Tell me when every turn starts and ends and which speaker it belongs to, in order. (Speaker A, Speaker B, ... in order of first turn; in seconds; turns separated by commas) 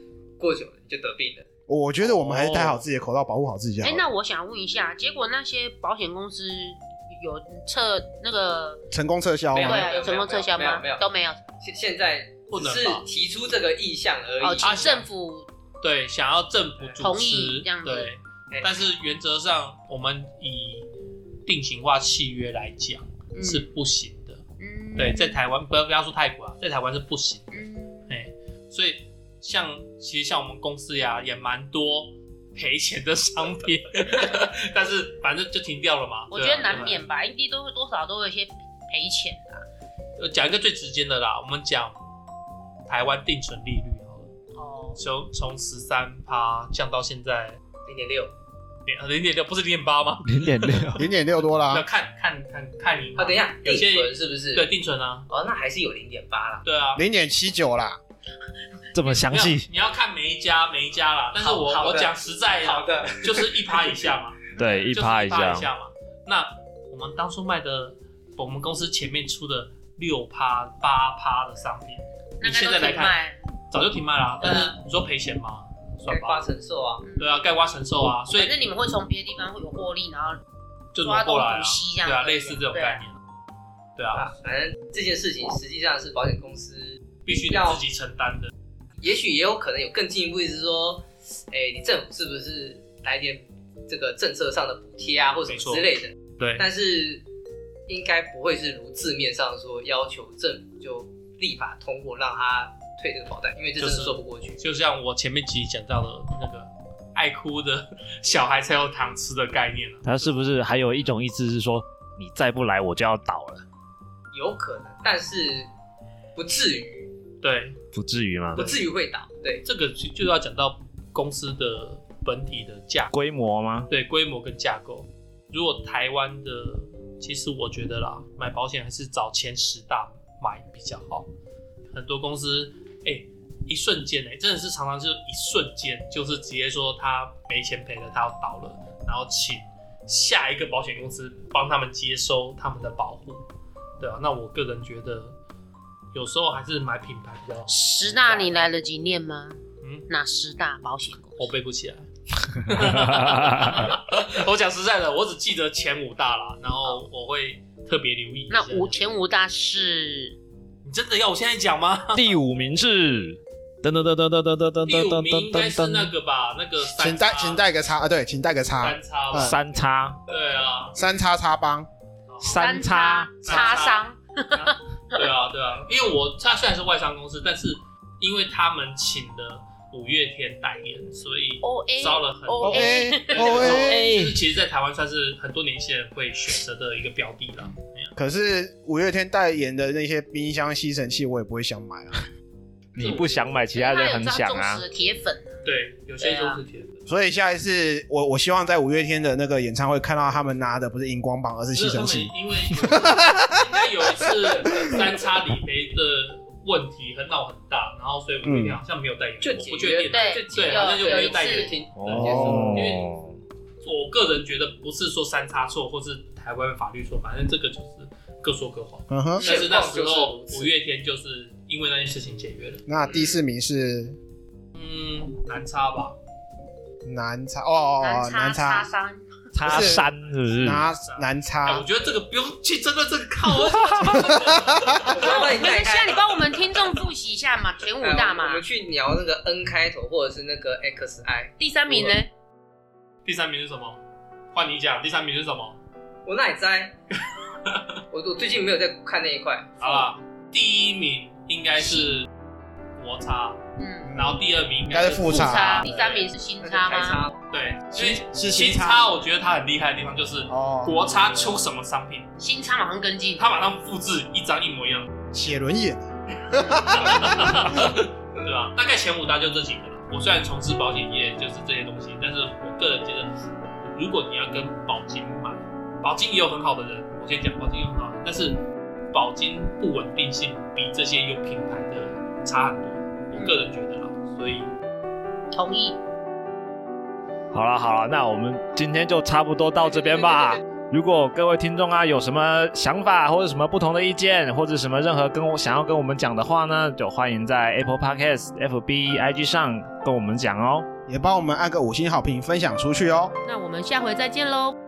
Speaker A: 0.4-1.5, Speaker B: 1.7-4.0, Speaker C: 2.0-2.9, Speaker D: 3.8-8.8, Speaker B: 8.9-9.9, Speaker A: 9.5-11.1, Speaker D: 9.6-11.4, Speaker A: 11.6-14.7, Speaker C: 12.5-13.0, Speaker D: 14.4-15.5, Speaker C: 14.6-15.1, Speaker C: 15.8-20.9, Speaker D: 17.0-18.1, Speaker C: 21.4-24.4, Speaker D: 23.3-23.7, Speaker D: 24.6-25.4, Speaker C: 25.0-37.0, Speaker D: 27.5-28.1, Speaker D: 36.3-39.6, Speaker C: 40.2-42.0, Speaker C: 42.9-44.3, Speaker D: 44.5-45.0, Speaker C: 45.0-47.6, Speaker A: 47.9-48.3, Speaker C: 48.9-51.0, Speaker E: 50.2-51.1, Speaker B: 51.0-51.8, Speaker C: 51.6-55.3, Speaker A: 53.1-54.6, Speaker A: 55.3-56.6, Speaker C: 56.6-57.0, Speaker B: 56.9-58.0, Speaker E: 58.9-59.7, Speaker C: 59.3-73.2, Speaker A: 61.4-63.9, Speaker E: 64.6-65.7, Speaker D: 72.4-73.3, Speaker C: 73.7-76.4, Speaker D: 74.4-74.7, Speaker A: 76.1-77.0, Speaker D: 77.0-77.4, Speaker C: 77.2-78.5, Speaker D: 78.3-80.4, Speaker C: 80.9-83.2, Speaker D: 81.0-83.0, Speaker C: 84.0-84.3, Speaker A: 84.1-87.8, Speaker C: 87.2-88.5, Speaker A: 89.0-97.2, Speaker C: 95.5-96.7, Speaker A: 97.9-104.6, Speaker C: 103.8-110.2, Speaker E: 110.0-113.6, Speaker A: 114.3-115.7, Speaker A: 116.3-117.1, Speaker C: 117.4-117.8, Speaker E: 117.9-118.6, Speaker A: 118.5-119.6, Speaker C: 118.5-118.8, Speaker C: 119.6-123.1, Speaker E: 123.1-123.9, Speaker C: 123.9-131.3, Speaker C: 131.9-143.4, Speaker C: 144.0-145.3, Speaker C: 146.1-148.7, Speaker D: 147.7-151.5, Speaker C: 151.4-159.0, Speaker E: 152.8-153.9, Speaker D: 158.5-160.4, Speaker C: 160.8-162.4, Speaker E: 162.1-166.1, Speaker C: 164.9-167.6, Speaker B: 167.0-169.6, Speaker C: 168.8-171.0, Speaker E: 169.3-170.2, Speaker B: 170.9-171.9, Speaker C: 172.3-172.7, Speaker E: 172.4-173.7, Speaker D: 172.4-174.8, Speaker C: 173.4-188.2, Speaker D: 181.6-183.8, Speaker B: 182.6-184.1, Speaker E: 183.7-184.4, Speaker B: 188.2-192.2, Speaker E: 192.9-194.8, Speaker C: 193.0-193.3, Speaker D: 193.7-196.6, Speaker C: 195.6-197.0, Speaker B: 197.1-203.6, Speaker C: 201.7-213.1, Speaker B: 204.2-204.9, Speaker B: 208.4-208.8, Speaker A: 209.4-212.8, Speaker D: 210.1-211.8, Speaker E: 212.0-213.4, Speaker B: 212.2-212.8, Speaker C: 213.8-222.9, Speaker B: 219.1-219.5, Speaker A: 219.4-220.7, Speaker B: 222.9-224.2, Speaker C: 224.7-226.2, Speaker B: 227.0-228.9, Speaker D: 228.0-229.2, Speaker E: 229.5-230.9, Speaker B: 229.6-230.1, Speaker B: 230.6-231.9, Speaker C: 230.6-235.7, Speaker E: 233.8-234.2, Speaker B: 234.2-234.9, Speaker A: 235.0-236.5, Speaker D: 235.1-238.6, Speaker A: 238.0-241.5, Speaker D: 241.6-242.3, Speaker C: 243.2-244.0, Speaker C: 244.5-245.8, Speaker A: 246.2-246.9, Speaker C: 247.6-248.0, Speaker A: 248.1-249.8, Speaker C: 249.8-252.3, Speaker D: 249.8-250.1, Speaker D: 251.8-252.1, Speaker C: 253.0-253.6, Speaker D: 253.8-254.1, Speaker B: 254.1-255.9, Speaker C: 254.1-256.3, Speaker D: 255.2-257.2, Speaker A: 256.6-257.4, Speaker C: 257.5-262.3, Speaker B: 257.9-259.0, Speaker B: 260.5-260.9, Speaker D: 262.4-263.4, Speaker C: 263.4-265.1, Speaker B: 265.3-267.9, Speaker C: 266.9-273.3, Speaker C: 273.8-284.7, Speaker D: 283.3-283.6, Speaker D: 285.5-286.0, Speaker E: 287.5-300.9, Speaker A: 289.8-290.6, Speaker B: 301.1-303.3, Speaker D: 303.4-304.7